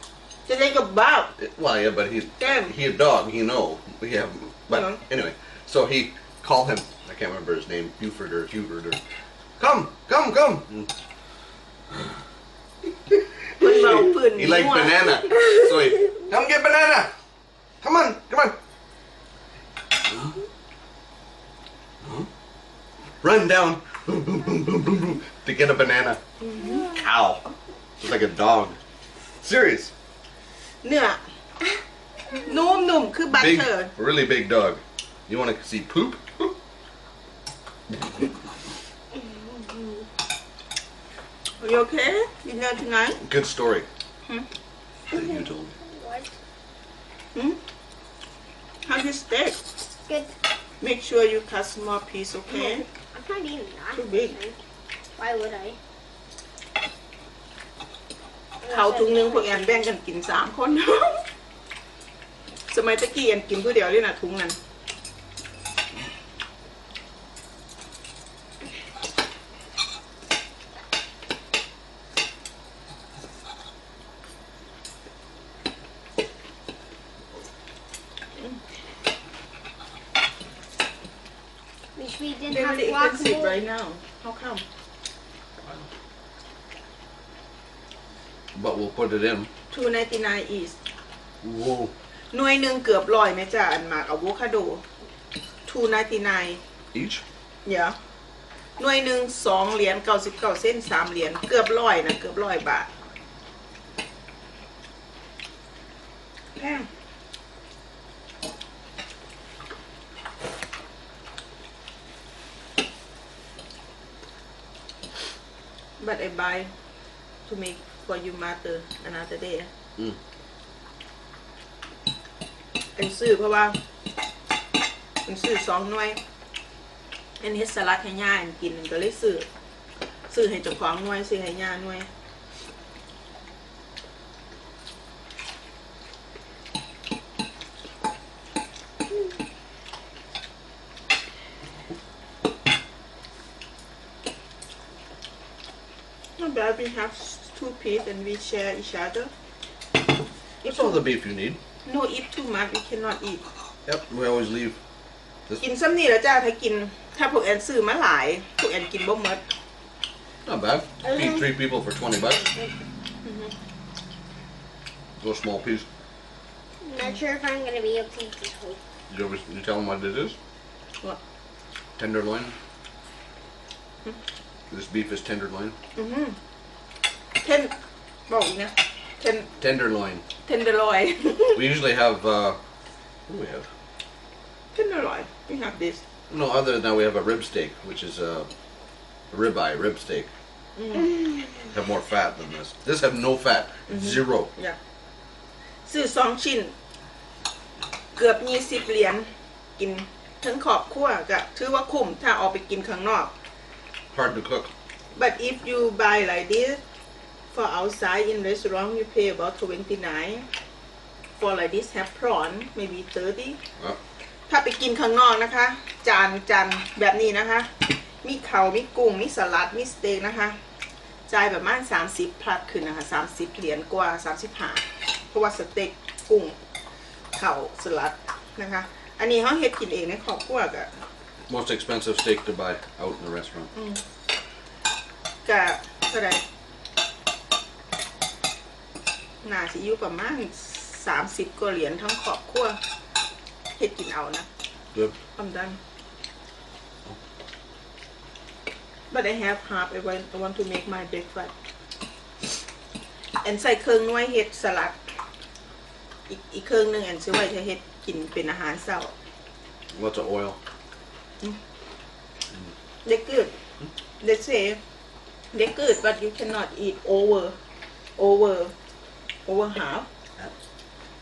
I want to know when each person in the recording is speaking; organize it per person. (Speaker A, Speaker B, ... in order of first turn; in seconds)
Speaker A: 0.5-1.3, 2.4-2.7, 4.7-5.0, 13.6-15.5, 26.4-26.9, 30.8-31.2, 32.3-33.9, 41.6-43.2, 48.9-49.6, 50.8-52.8, 54.0-54.4, 58.6-61.2, 62.7-64.6, 82.5-84.6, 89.7-90.8, 92.3-94.8, 95.7-96.6, 97.6-98.0, 98.8-102.9, 106.5-106.9, 116.0-116.7, 117.5-119.7, 123.0-123.8, 125.2-126.2, 127.4-129.4, 130.3-132.1, 146.4-149.3, 150.6-151.0, 151.8-153.4, 155.6-159.4, 163.2-163.5, 175.9-176.4, 177.4-177.7, 178.3-179.5, 180.4-181.7, 184.7-186.0, 190.8-191.1, 193.9-194.8, 195.8-196.7, 198.1-203.3, 205.1-206.8, 207.5-210.4, 211.4-213.6, 214.5-220.6, 221.3-226.6, 227.3-230.9, 233.7-234.0, 235.4-236.4, 239.4-242.8, 243.8-244.5, 245.3-245.8, 249.1-251.5, 253.4-255.0, 256.3-259.1, 263.0-263.5, 264.2-264.8, 265.5-267.6, 268.2-268.7, 269.4-270.1
Speaker B: 1.4-9.0, 9.6-10.9, 13.6-17.1, 17.8-18.6, 20.1-20.4, 22.0-22.3, 23.2-26.2, 26.9-27.5, 28.0-28.8, 29.4-29.9, 33.3-36.5, 43.2-43.9, 45.1-45.7, 85.6-85.9, 88.5-89.5, 91.4-91.9, 96.9-97.2, 150.6-151.6, 153.8-154.8, 160.4-162.5, 165.2-165.9, 169.1-170.3, 172.0-172.5, 174.7-175.8, 179.6-180.2, 181.5-182.6, 183.3-183.7, 186.3-188.5, 189.3-190.3, 191.7-194.5, 204.1-204.7, 231.5-233.7, 259.9-260.6
Speaker C: 45.1-46.3, 52.5-54.6, 55.2-55.8, 58.6-59.8, 82.0-83.6, 161.0-161.6, 166.8-168.8